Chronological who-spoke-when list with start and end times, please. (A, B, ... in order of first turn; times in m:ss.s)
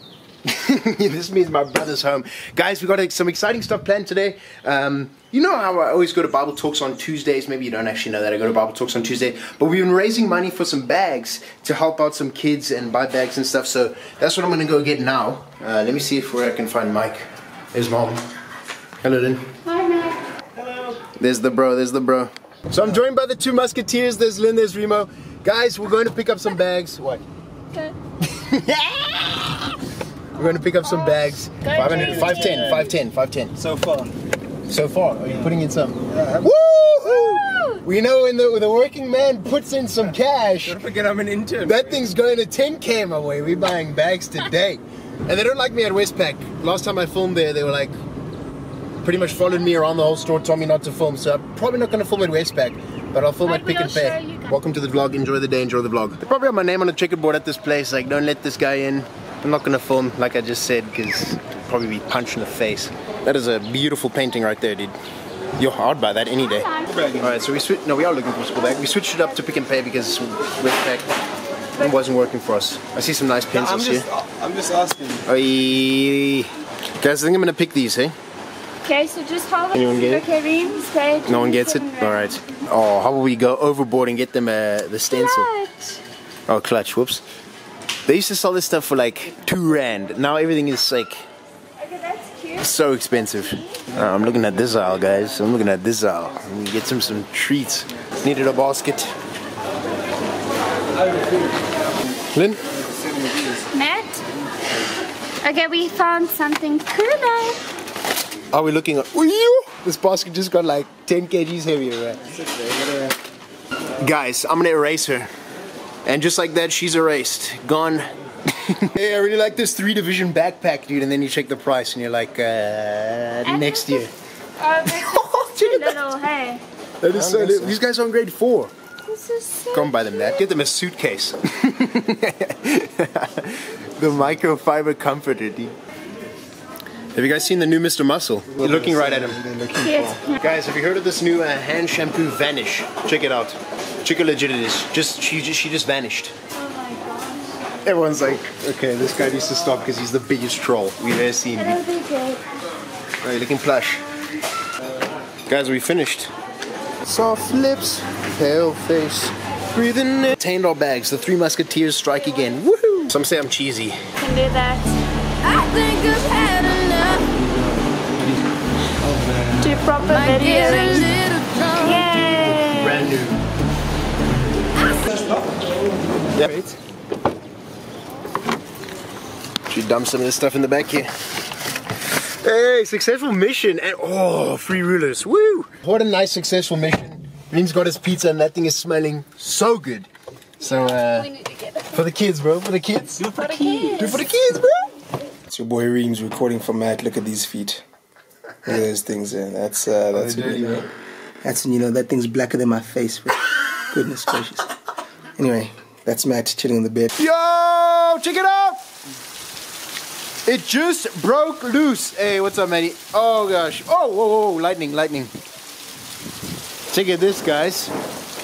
0:00.4-0:18.2 A
0:19.0-0:19.5 A
0:19.7-0:20.1 B
0:21.1-0:27.2 A
0:28.2-0:29.8 A
0:30.3-0:33.5 A
0:31.6-0:32.8 B
0:33.6-0:34.0 C
0:33.7-0:34.0 D
0:34.7-0:40.8 A
0:37.1-0:37.8 B
0:40.7-0:41.9 D
0:41.6-0:47.9 A
0:49.0-1:04.9 A
0:53.4-0:54.5 B
1:05.6-1:11.1 A
1:11.8-1:14.1 A
1:13.6-1:15.2 D
1:14.4-1:14.9 C
1:15.2-1:18.1 A
1:18.8-1:22.3 B
1:19.7-1:20.2 A
1:21.2-1:25.5 A
1:25.1-1:26.0 B
1:26.5-1:27.2 A
1:28.0-1:31.2 A
1:31.9-1:32.6 B
1:32.5-1:39.1 A
1:42.3-1:42.6 A
1:43.7-1:44.2 B
1:45.4-1:47.6 B
1:48.5-1:52.2 A
1:54.0-1:55.3 A
1:56.0-2:04.1 A
2:03.4-2:06.6 B
2:04.8-2:06.1 A
2:07.0-2:08.7 A
2:07.2-2:07.7 D
2:09.0-2:10.4 B
2:09.7-2:15.7 A
2:17.1-2:19.4 A
2:18.6-2:20.2 D
2:19.8-2:20.3 B
2:20.4-2:26.3 A
2:26.6-2:27.5 B
2:27.8-2:31.8 A
2:31.6-2:32.4 B
2:33.2-2:34.0 A
2:35.5-2:36.3 A
2:37.0-2:44.0 A
2:44.2-2:45.0 B
2:45.4-2:47.3 C
2:49.6-2:51.2 B
2:50.0-2:52.1 C
2:51.7-2:53.1 B
2:52.4-2:53.4 A
2:56.3-2:56.8 A
2:59.7-3:01.1 A
3:02.3-3:10.1 A
3:10.6-3:11.3 A
3:10.8-3:11.8 B
3:11.8-3:14.9 A
3:13.3-3:14.2 B
3:15.5-3:17.8 D
3:18.6-3:20.9 D
3:21.4-3:24.8 D
3:25.4-3:27.1 D
3:27.2-3:28.8 A
3:30.4-3:35.3 A
3:36.9-3:37.9 A